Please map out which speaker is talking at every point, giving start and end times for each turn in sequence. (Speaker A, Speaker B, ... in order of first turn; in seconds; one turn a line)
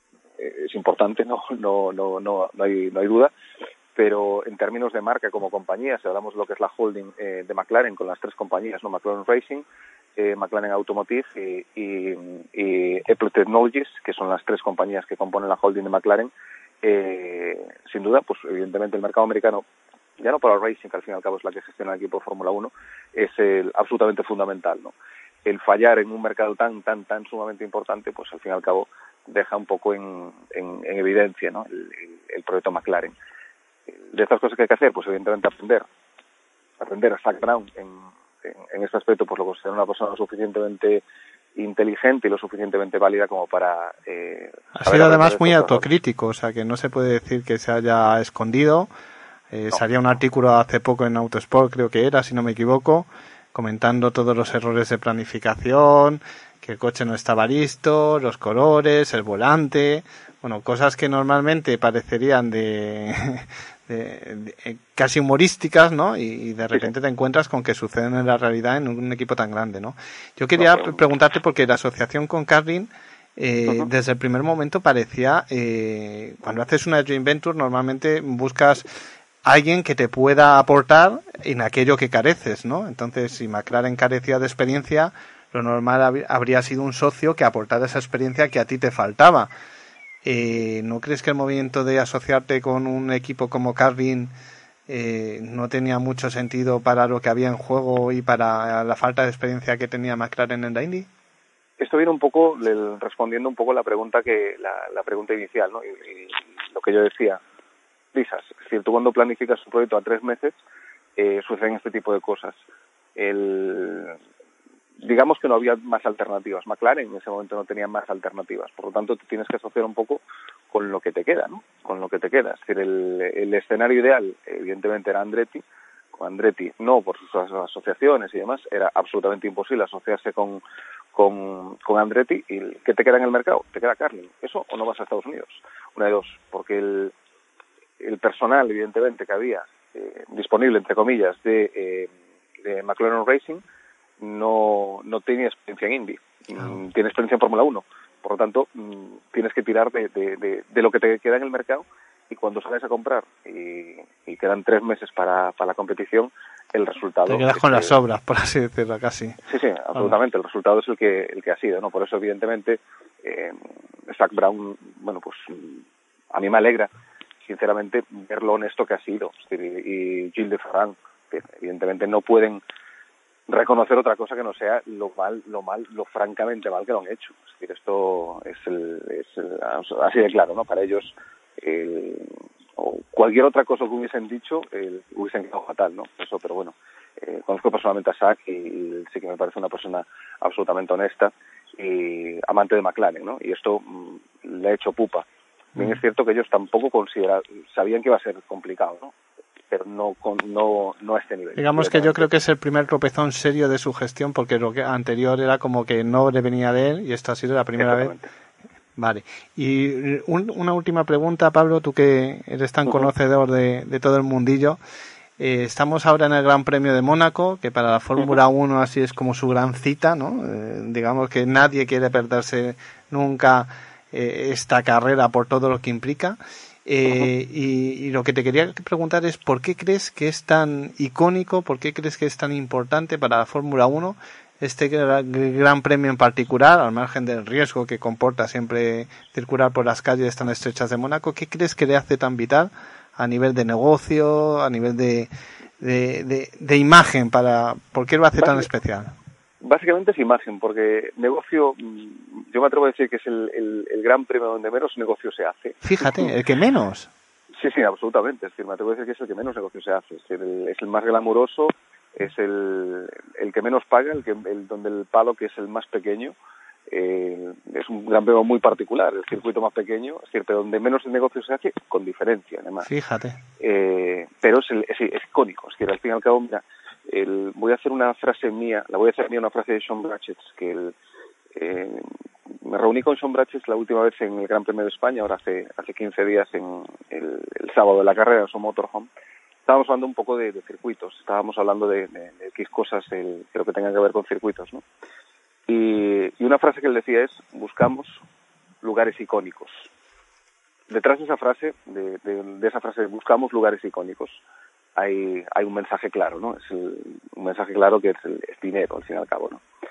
Speaker A: 0.4-3.3
Speaker A: 4.0-9.7
Speaker A: 10.2-16.3
Speaker A: 16.8-19.6
Speaker A: 20.2-24.9
Speaker A: 25.5-33.1
Speaker A: 34.1-35.9
Speaker A: 36.8-41.0
Speaker A: 41.6-45.9
Speaker B: 44.8-48.9
Speaker B: 49.5-78.9
Speaker A: 70.6-71.0
Speaker B: 79.5-89.5
Speaker B: 90.2-94.3
Speaker B: 94.9-101.1
Speaker A: 101.8-107.4
Speaker A: 108.1-110.6
Speaker A: 111.2-112.6
Speaker A: 113.2-114.2
Speaker A: 115.0-125.6
Speaker A: 126.2-130.6
Speaker A: 131.1-137.1
Speaker A: 138.0-142.1
Speaker A: 142.6-143.6
Speaker A: 144.2-157.9
Speaker B: 157.3-159.4
Speaker A: 159.5-163.6
Speaker A: 164.1-165.8
Speaker A: 166.3-166.9
Speaker A: 167.5-172.6
Speaker A: 173.5-181.1
Speaker A: 181.6-195.2
Speaker A: 195.8-199.1
Speaker A: 199.7-202.3
Speaker B: 201.6-208.1
Speaker A: 207.8-208.3
Speaker B: 209.0-214.8
Speaker B: 215.4-249.1
Speaker A: 248.4-248.7
Speaker A: 249.7-256.3
Speaker B: 255.8-257.1
Speaker A: 257.6-266.4
Speaker A: 266.9-272.9
Speaker B: 272.8-273.4
Speaker A: 273.6-280.9
Speaker A: 281.6-282.1
Speaker A: 282.6-289.1
Speaker A: 289.7-294.8
Speaker A: 295.7-298.2
Speaker A: 298.8-299.9
Speaker A: 300.9-304.4
Speaker A: 305.0-309.6